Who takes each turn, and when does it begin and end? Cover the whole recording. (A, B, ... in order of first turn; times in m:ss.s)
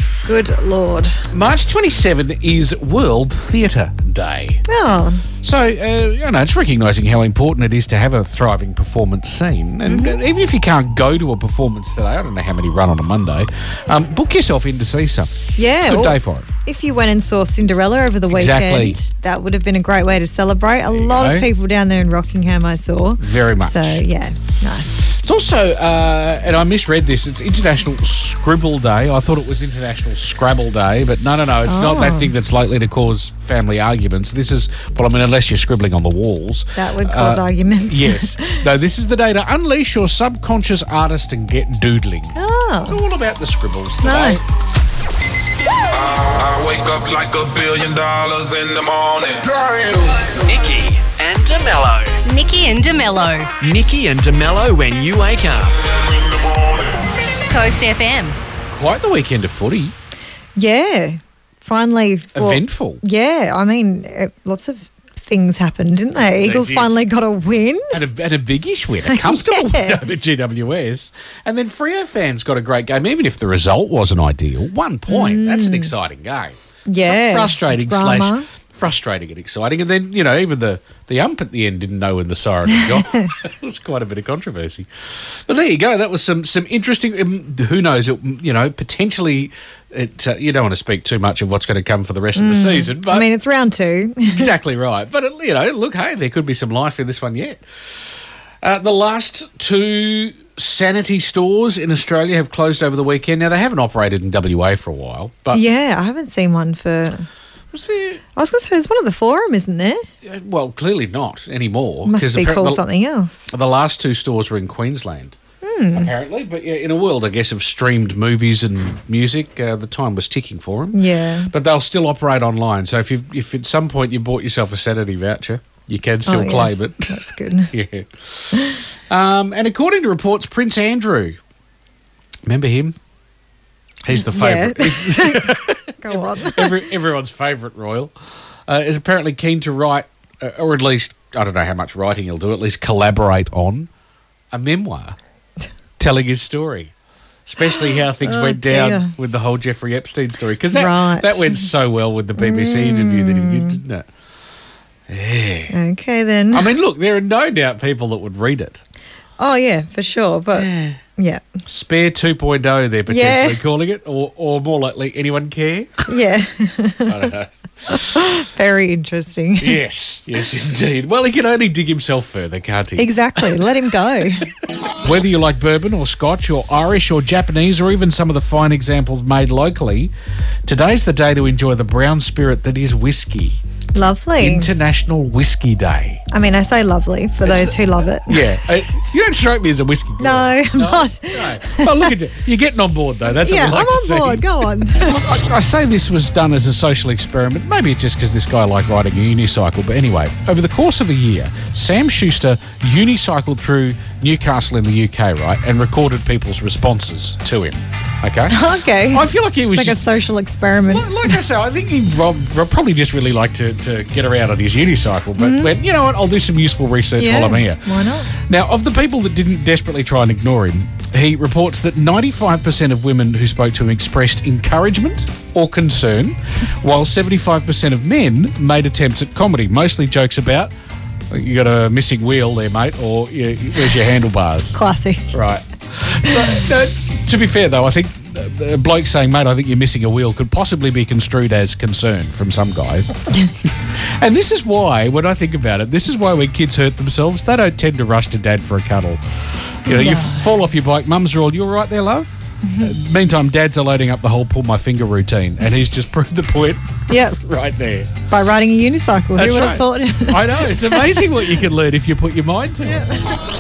0:00.3-0:01.2 A
0:01.3-0:04.6 B
0:04.7-0:05.3 A
0:05.4-0:16.5 B
0:09.9-0:10.2 A
0:15.6-0:25.1 A
0:18.3-0:19.0 B
0:20.9-0:21.5 B
0:23.2-0:24.0 B
0:25.0-0:44.4 B
0:31.7-0:32.3 A
0:36.8-0:38.6 A
0:42.4-0:43.0 A
0:44.0-0:44.4 A
0:45.9-0:50.2 C
0:50.4-0:52.2 D
0:52.2-0:53.5 E
0:53.6-0:55.8 D
0:56.0-0:56.9 C
0:57.5-0:58.4 E
0:58.7-0:59.9 B
1:00.6-1:07.9 A
1:02.4-1:03.0 B
1:06.4-1:07.0 B
1:07.9-1:24.9 B
1:09.1-1:10.0 A
1:15.1-1:15.9 A
1:16.9-1:18.5 A
1:25.5-1:33.3 B
1:32.4-1:34.5 A
1:34.3-1:37.6 B
1:38.6-1:45.6 B
1:45.5-1:47.3 A
1:47.7-1:48.2 B
1:48.4-1:50.0 A
1:50.2-1:52.8 B
1:52.1-1:53.5 A
1:53.5-1:55.4 B
1:55.6-1:56.1 A
1:55.9-2:07.2 B
2:00.9-2:01.5 A
2:06.3-2:07.7 A
2:07.7-2:11.4 B
2:12.5-2:13.0 B
2:14.0-2:18.1 B
2:14.1-2:16.8 A
2:18.7-2:23.9 B
2:24.5-2:25.2 B
2:26.0-2:26.9 B
2:27.5-2:34.1 B
2:28.2-2:29.1 A
2:30.7-2:31.7 A
2:32.4-2:33.8 A
2:35.1-2:35.8 B
2:35.7-2:36.7 A
2:36.5-2:38.8 B
2:39.4-2:41.5 A
2:40.6-2:41.0 B
2:41.7-2:46.0 B
2:43.1-2:43.6 A
2:46.1-2:47.3 A
2:47.1-2:48.0 B
2:47.9-2:49.8 A
2:49.6-2:53.7 B
2:53.0-2:54.5 A
2:55.0-3:00.1 B
3:00.7-3:03.6 B
3:04.0-3:04.7 A
3:04.4-3:06.2 B
3:06.3-3:08.4 A
3:07.4-3:30.0 B
3:10.2-3:12.1 A
3:13.3-3:15.1 A
3:28.5-3:31.4 A
3:30.9-3:50.7 B
3:35.4-3:35.7 A
3:37.2-3:38.3 A
3:51.3-3:54.8 B
3:54.7-3:55.3 A
3:55.3-4:09.2 B
4:09.8-4:18.2 B
4:09.9-4:10.4 A
4:12.6-4:12.9 A
4:17.1-4:17.4 A
4:18.3-4:21.2 A
4:19.4-4:23.1 B
4:22.9-4:23.2 A